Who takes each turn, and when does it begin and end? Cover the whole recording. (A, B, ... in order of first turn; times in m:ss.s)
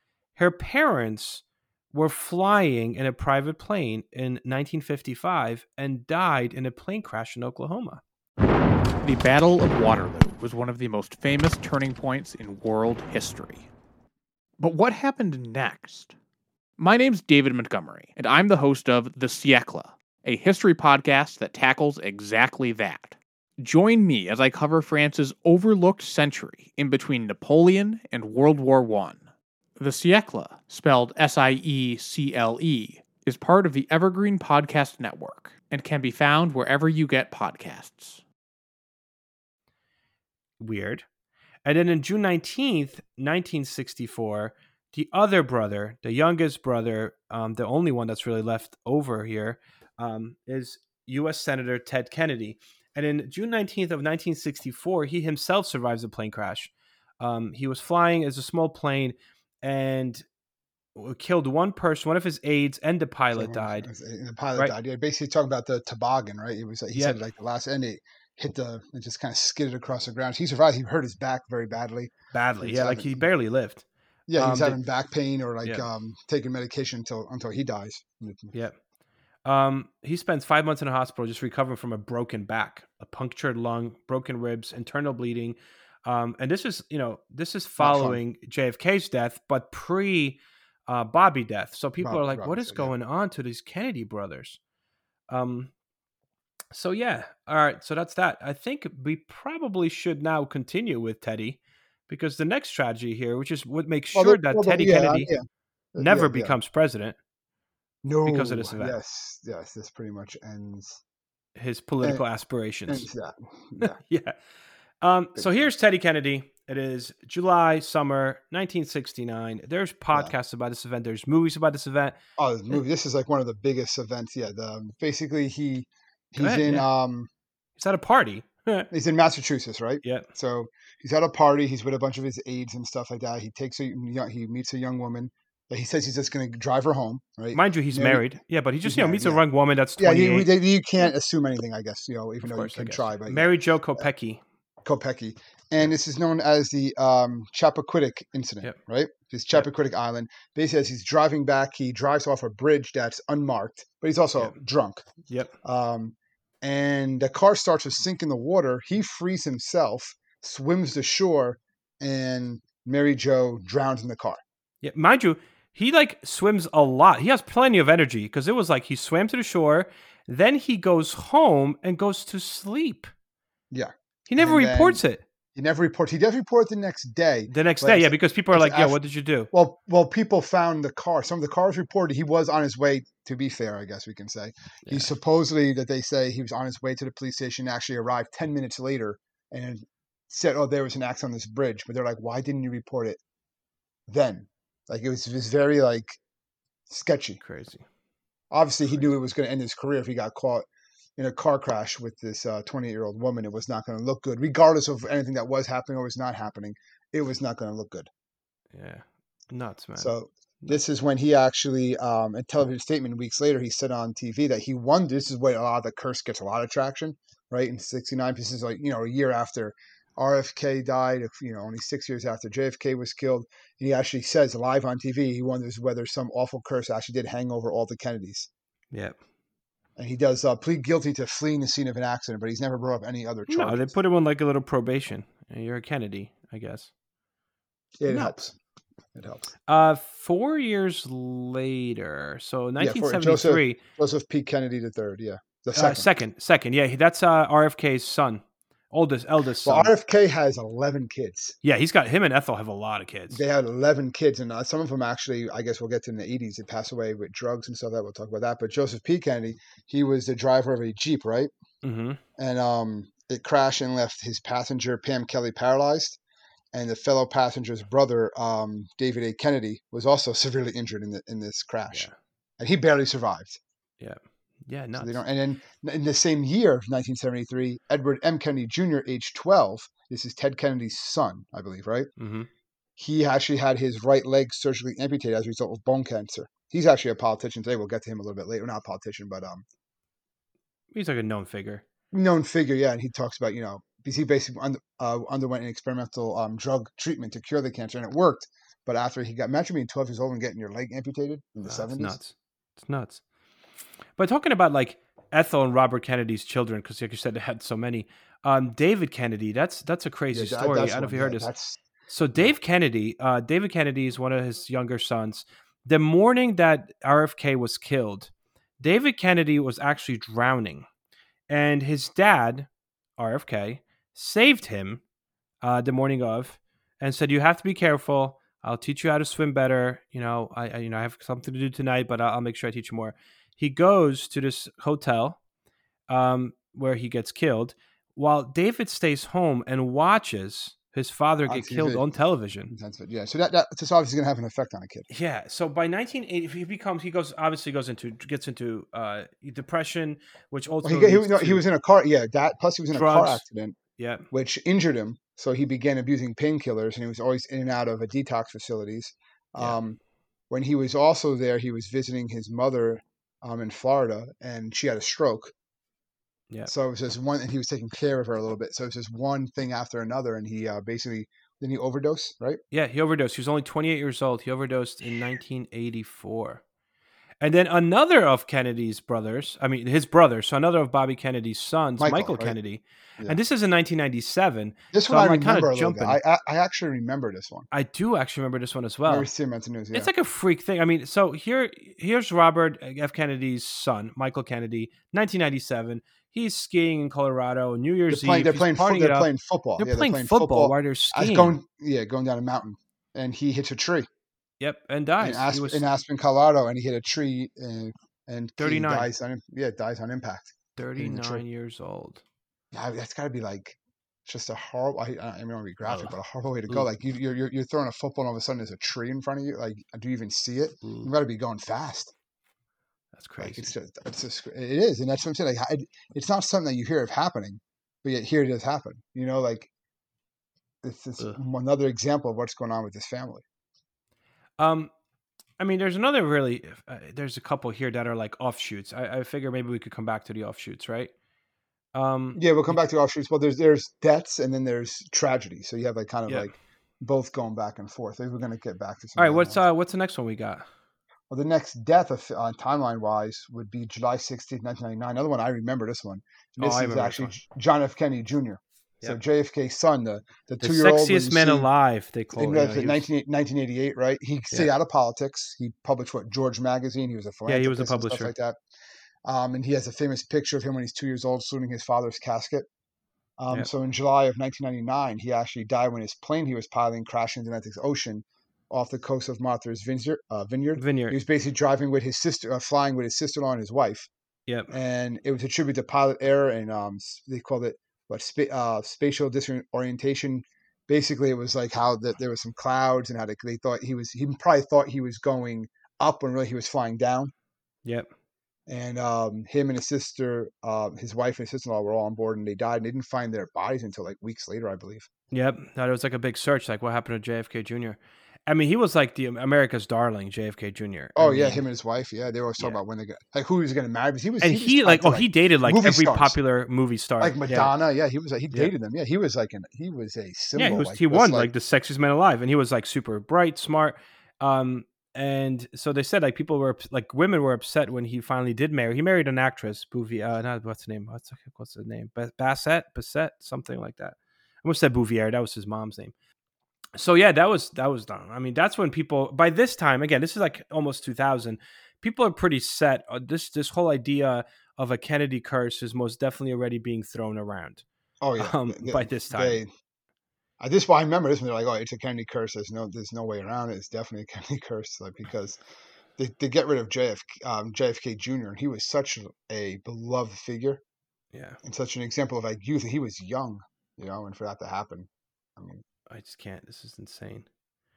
0:00.4-0:08.0 A
0:09.0-0:13.7 B
0:14.6-0:16.2 B
0:16.8-0:38.2 B
0:40.6-0:41.1 A
0:41.6-1:00.2 A
1:01.0-1:03.9 A
1:03.4-1:13.3 C
1:12.3-1:13.8 A
1:14.3-1:18.5 C
1:14.4-1:14.8 A
1:19.4-1:34.6 A
1:27.8-1:28.2 C
1:32.0-1:32.9 C
1:35.3-1:35.7 A
1:36.7-1:45.3 A
1:44.1-1:46.6 C
1:46.0-1:47.2 A
1:48.0-1:51.0 C
1:48.2-1:49.0 A
1:51.6-1:53.1 A
1:52.9-1:54.0 C
1:53.8-1:54.4 A
1:55.0-2:02.2 A
1:55.4-1:55.7 C
2:02.4-2:07.3 C
2:06.4-2:06.9 A
2:07.8-2:08.9 A
2:08.9-2:19.4 C
2:17.5-2:20.5 A
2:20.0-2:24.1 C
2:22.4-2:24.4 A
2:24.8-2:35.1 C
2:35.6-2:44.4 C
2:44.8-2:53.1 A
2:53.7-2:55.0 C
2:54.3-2:55.2 A
2:55.6-2:59.0 C
2:57.5-2:59.5 A
2:59.5-3:13.2 C
3:04.9-3:05.1 A
3:14.1-3:16.2 C
3:16.9-3:17.4 C
3:17.4-3:17.9 A
3:18.5-3:20.7 C
3:21.2-3:28.1 C
3:28.7-3:30.8 A
3:30.0-3:48.5 C
3:48.9-3:49.2 A
3:50.0-3:53.9 C
3:53.5-3:56.9 A
3:58.0-3:58.6 C
3:58.1-3:58.4 A
3:59.1-3:59.5 C
3:59.7-4:03.8 A
4:02.8-4:06.1 C
4:05.7-4:09.9 A
4:09.6-4:11.6 C
4:11.6-4:13.4 A
4:13.3-4:21.5 C
4:21.8-4:22.2 A
4:22.4-4:26.2 C
4:26.7-4:32.1 C
4:32.6-4:33.6 C
4:34.0-4:35.2 A
4:35.0-4:42.1 C
4:42.2-4:42.5 A
4:43.0-4:49.6 C
4:50.9-4:51.8 A
4:52.1-5:02.2 C
5:01.6-5:03.2 A
5:04.2-5:11.5 A
5:10.3-5:11.8 C
5:12.1-5:20.9 A
5:21.5-5:25.0 A
5:25.6-5:35.4 A
5:36.1-5:42.7 A
5:41.5-5:42.0 C
5:42.7-5:45.1 C
5:45.1-5:51.6 A
5:50.8-5:53.8 C
5:52.9-5:53.4 A
5:54.0-5:54.3 A
5:54.3-6:00.0 C
6:00.5-6:05.5 C
6:06.7-6:12.6 C
6:12.7-6:16.6 A
6:17.4-6:26.2 A
6:22.0-6:22.6 C
6:24.9-6:27.7 C
6:27.7-6:29.3 A
6:29.1-6:30.1 C
6:29.9-6:41.6 A
6:38.1-6:44.1 C
6:44.6-6:45.9 A
6:45.2-6:51.4 C
6:48.6-6:49.1 A
6:50.8-6:52.2 A
6:52.7-7:02.1 C
6:55.9-6:56.1 A
7:00.8-7:01.1 A
7:03.2-7:03.7 A
7:03.4-7:09.7 C
7:10.8-7:13.4 C
7:14.6-7:14.9 A
7:15.6-7:21.1 A
7:21.9-7:22.8 A
7:22.3-7:29.6 C
7:29.2-7:30.6 A
7:31.3-7:41.7 C
7:36.6-7:37.4 A
7:40.6-7:43.0 A
7:42.3-7:48.6 C
7:47.5-7:48.3 A
7:49.2-7:52.7 C
7:53.4-8:04.1 C
8:00.8-8:01.2 A
8:04.7-8:17.3 C
8:18.7-8:25.1 C
8:25.3-8:31.6 A
8:31.2-8:36.4 C
8:34.4-8:37.7 A
8:37.2-8:41.5 C
8:40.6-8:56.1 A
8:57.0-9:07.8 A
9:08.2-9:09.7 C
9:08.4-9:09.6 A
9:10.6-9:15.6 C
9:16.2-9:20.8 C
9:21.3-9:21.6 A
9:21.6-9:25.8 C
9:26.1-9:27.5 A